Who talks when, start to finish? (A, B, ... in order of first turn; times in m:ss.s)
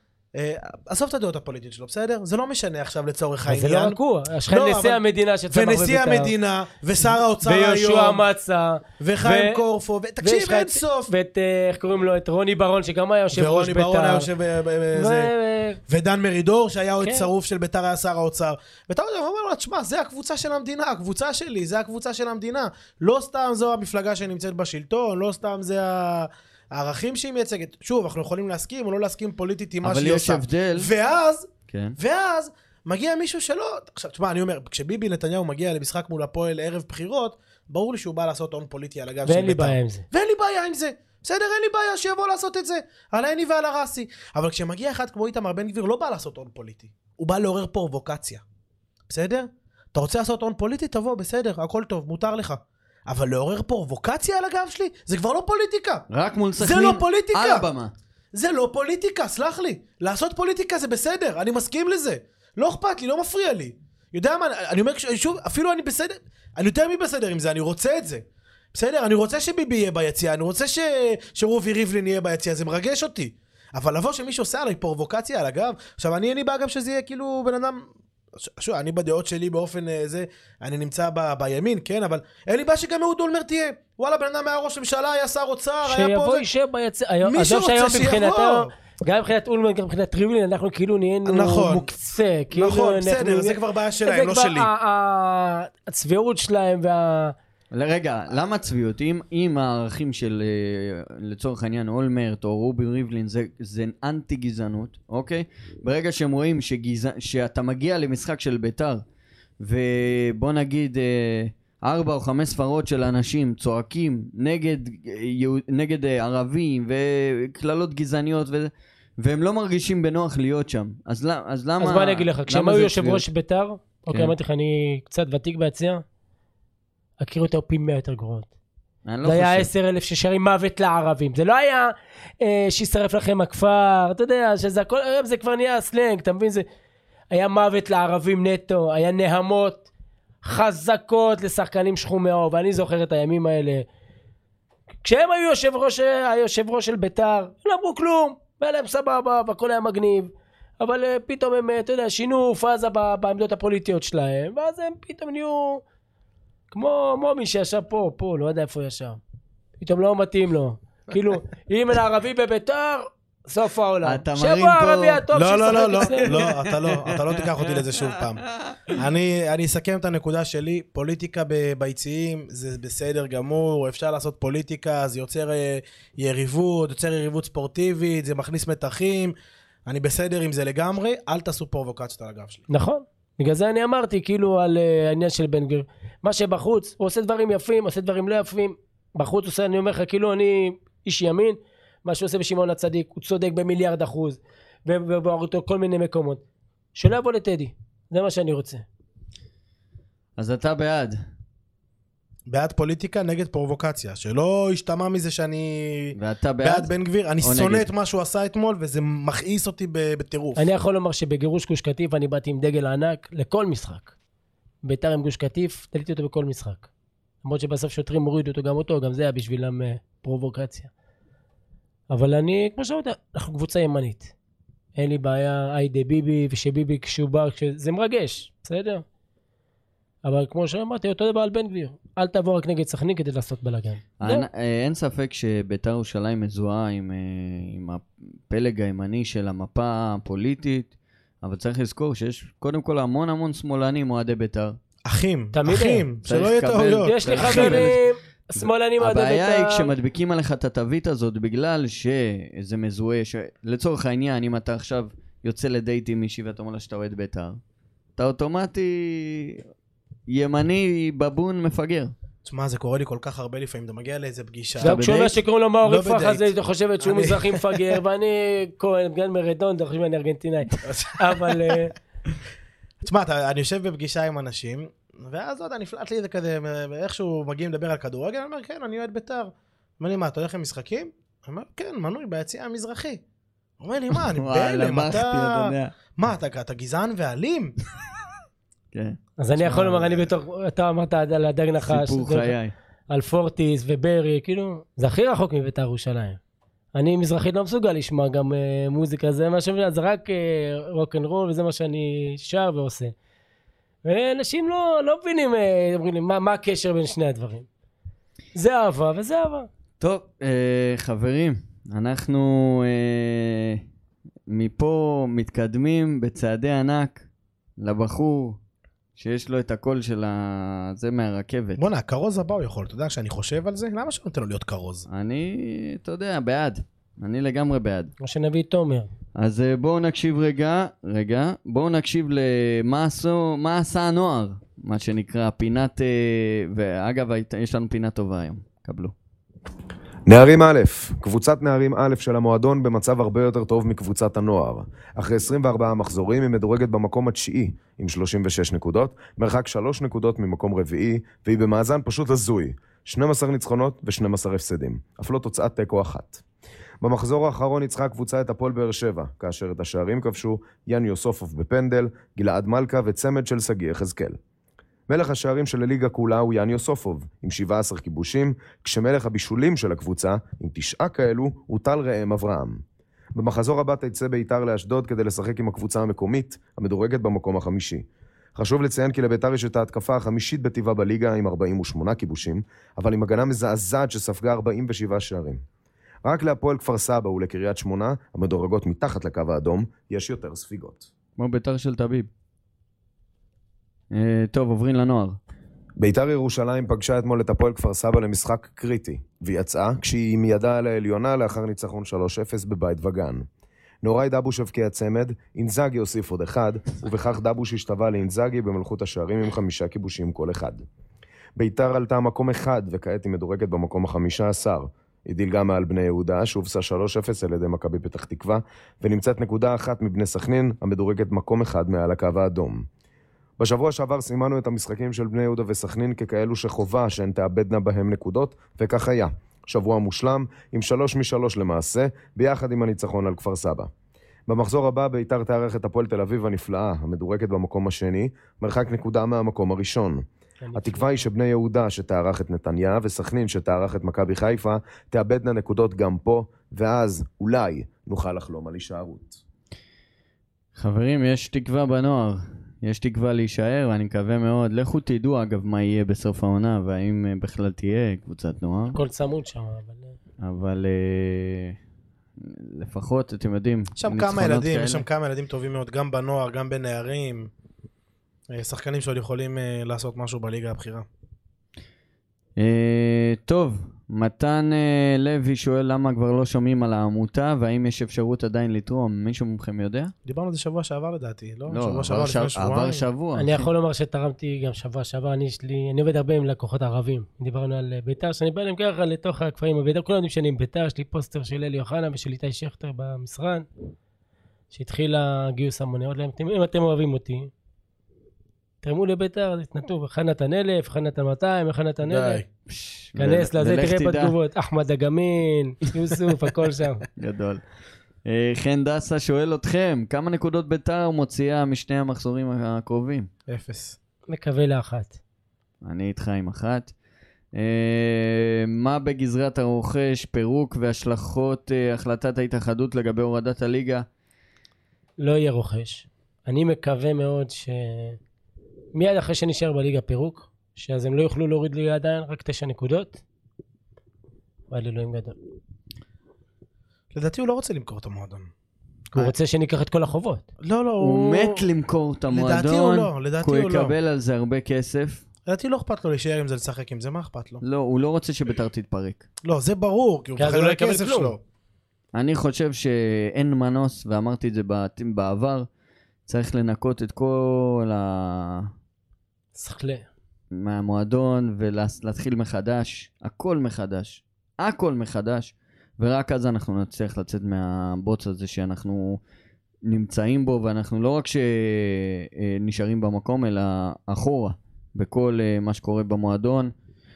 0:00.4-0:08.2 A
0:03.5-0:06.3 B
0:07.2-0:09.6 B
0:09.0-0:11.1 A
0:10.2-0:14.3 B
0:13.3-0:15.3 A
0:14.9-0:15.8 B
0:15.9-0:48.4 A
0:17.0-0:17.3 B
0:29.8-0:30.9 C
0:31.7-0:32.0 C
0:39.3-0:40.1 B
0:49.1-0:56.0 A
0:56.1-0:57.9 C
0:56.6-0:57.7 A
0:58.3-1:17.8 A
1:18.4-1:26.5 A
1:25.8-1:37.4 B
1:27.2-1:28.7 A
1:31.3-1:31.9 A
1:32.5-1:34.7 A
1:37.7-1:49.0 C
1:49.6-2:03.2 C
2:01.8-2:06.0 B
2:07.2-2:08.5 B
2:09.0-2:09.7 C
2:09.2-2:16.7 B
2:17.3-2:19.9 B
2:20.4-2:23.9 B
2:25.0-2:35.8 B
2:36.7-2:39.2 B
2:39.8-2:46.4 B
2:44.0-2:45.2 C
2:45.3-2:59.3 A
2:46.1-2:49.0 C
2:59.9-3:02.6 A
3:02.7-3:16.4 B
3:17.0-3:18.8 B
3:20.4-3:21.2 C
3:22.5-3:30.7 A
3:26.2-3:26.9 C
3:27.4-3:27.9 C
3:30.6-3:34.1 B
3:34.8-3:36.9 B
3:37.4-3:40.9 B
3:42.1-3:44.3 B
3:45.0-3:49.0 B
3:50.2-3:54.5 B
3:54.2-4:00.9 C
4:01.4-4:04.8 C
4:05.1-4:07.9 A
4:05.5-4:06.1 B
4:06.2-4:08.0 C
4:07.0-4:09.9 B
4:08.6-4:17.6 C
4:18.2-4:19.6 C
4:20.3-4:22.1 C
4:22.4-4:25.0 A
4:24.8-4:25.4 C
4:24.8-4:31.9 B
4:25.8-4:28.0 A
4:30.8-4:31.8 A
4:33.0-4:43.2 A
4:43.8-4:47.8 A
4:44.1-4:45.9 C
4:49.4-4:52.6 B
4:49.7-4:50.2 A
4:51.8-4:52.7 C
4:53.1-4:56.4 B
4:56.9-5:03.1 B
5:04.0-5:07.7 B
5:08.6-5:09.7 B
5:10.0-5:13.8 C
5:14.5-5:17.2 C
5:17.8-5:18.6 C
5:19.2-5:21.8 C
5:21.8-5:25.1 A
5:25.1-5:28.1 C
5:28.2-5:29.1 B
5:29.4-5:39.1 C
5:40.3-5:56.4 D
5:57.0-6:04.4 D
6:05.1-6:12.8 D
6:13.4-6:18.0 D
6:18.6-6:25.6 D
6:26.2-6:31.1 D
6:31.4-6:32.3 C
6:34.1-6:35.4 C
6:36.0-6:43.4 D
6:44.0-6:50.8 D
6:51.6-7:02.8 D
7:03.6-7:13.9 D
7:14.5-7:20.2 D
7:20.6-7:21.3 B
7:20.8-7:29.4 D
7:30.8-7:39.0 C
7:38.9-7:40.2 B
7:40.4-7:41.8 C
7:42.4-7:45.0 C
7:44.0-7:47.5 A
7:48.5-7:51.1 A
7:52.6-8:00.1 C
8:00.3-8:03.1 A
8:01.7-8:03.7 C
8:03.4-8:13.7 B
8:14.7-8:17.5 B
8:18.8-8:22.4 B
8:22.0-8:22.4 A
8:22.7-8:24.4 C
8:23.2-8:27.1 B
8:27.2-8:27.6 C
8:28.2-8:33.3 C
8:33.5-8:34.0 A
8:34.3-8:35.2 B
8:35.8-8:36.9 C
8:37.5-8:44.0 C
8:45.2-8:48.2 B
8:49.0-8:53.2 B
8:54.7-8:55.4 B
8:57.1-8:58.5 A
8:59.1-9:00.4 B
9:00.6-9:01.7 A
9:01.0-9:05.2 C
9:02.3-9:03.9 A
9:05.5-9:07.6 A
9:07.6-9:09.3 C
9:09.4-9:11.4 A
9:10.4-9:11.4 B
9:12.1-9:15.7 C
9:16.3-9:18.7 C
9:19.6-9:20.1 B
9:20.5-9:29.2 C
9:29.8-9:36.7 C